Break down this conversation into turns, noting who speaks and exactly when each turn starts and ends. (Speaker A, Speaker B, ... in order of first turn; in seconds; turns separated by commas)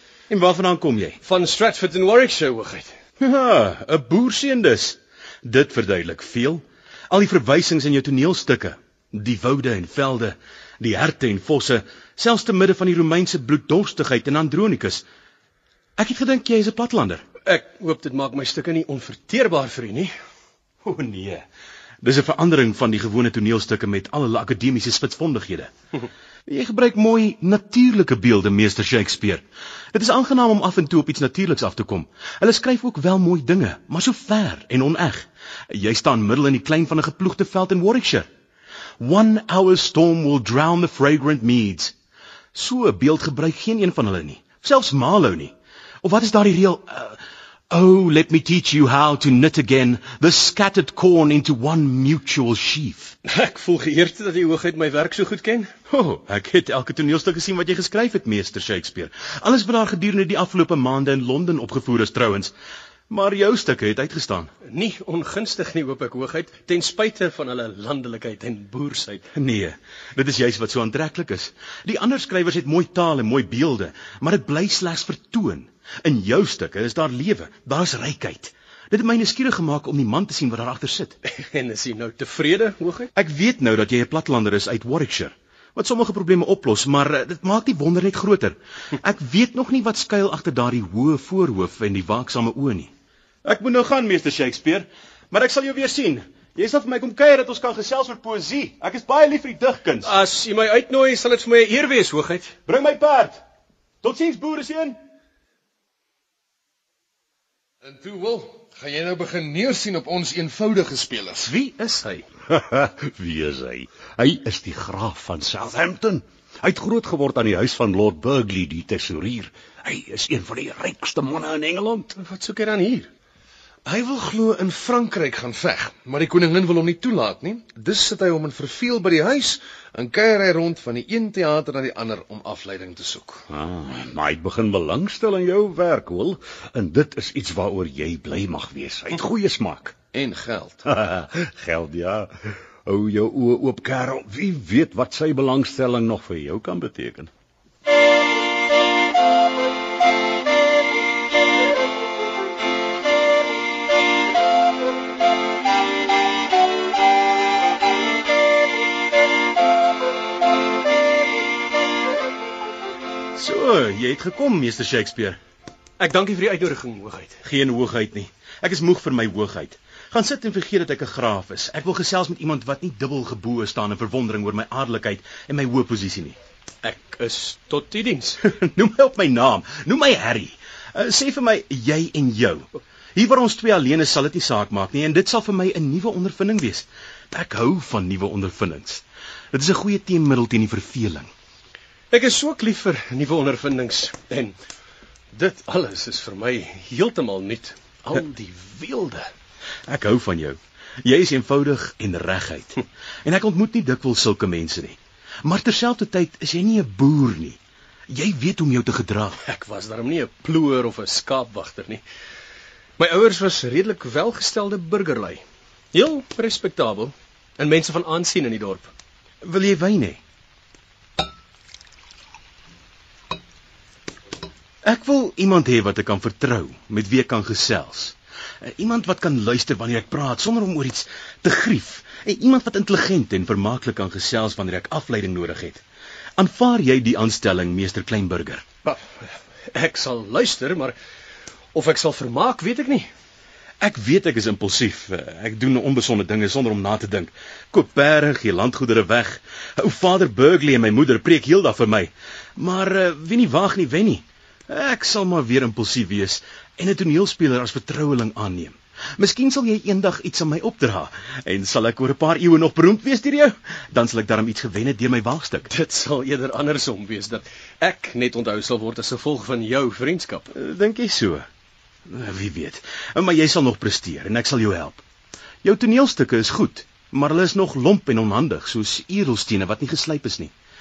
Speaker A: 0.3-1.2, Speaker B: 1.2-2.9, Speaker A: 3.2-15.1, Speaker A: 16.0-17.2, Speaker B: 17.5-20.1, Speaker A: 20.9-21.4, Speaker A: 22.0-25.7, Speaker A: 26.5-38.3, Speaker A: 39.0-41.9, Speaker A: 42.5-47.2, Speaker A: 47.7-53.2, Speaker B: 53.3-55.7, Speaker A: 55.9-62.5, Speaker A: 63.1-64.5, Speaker B: 64.6-69.2, Speaker A: 69.3-81.2, Speaker B: 81.3-83.1, Speaker A: 83.2-92.9, Speaker A: 93.5-100.1, Speaker B: 100.0-102.6, Speaker A: 102.7-103.4, Speaker A: 104.0-105.0, Speaker C: 107.8-111.5, Speaker B: 111.4-112.3, Speaker D: 112.5-122.1, Speaker B: 122.2-123.1, Speaker C: 123.8-133.5, Speaker D: 133.5-139.9, Speaker C: 140.1-140.8, Speaker D: 140.9-142.3, Speaker D: 142.9-147.3, Speaker A: 163.4-165.4, Speaker B: 166.0-167.4, Speaker A: 167.4-176.4, Speaker B: 176.8-178.4, Speaker A: 178.6-191.3, Speaker B: 192.1-194.6, Speaker B: 195.3-199.3, Speaker A: 199.9-207.6, Speaker A: 208.1-209.4, Speaker B: 209.4-212.0, Speaker B: 213.0-218.9, Speaker A: 219.4-220.2, Speaker A: 224.8-235.8, Speaker A: 236.4-238.7, Speaker B: 239.7-240.9, Speaker B: 241.7-243.1, Speaker A: 243.8-265.7, Speaker B: 265.7-270.5, Speaker A: 270.5-271.5, Speaker A: 272.1-275.0, Speaker A: 275.6-280.5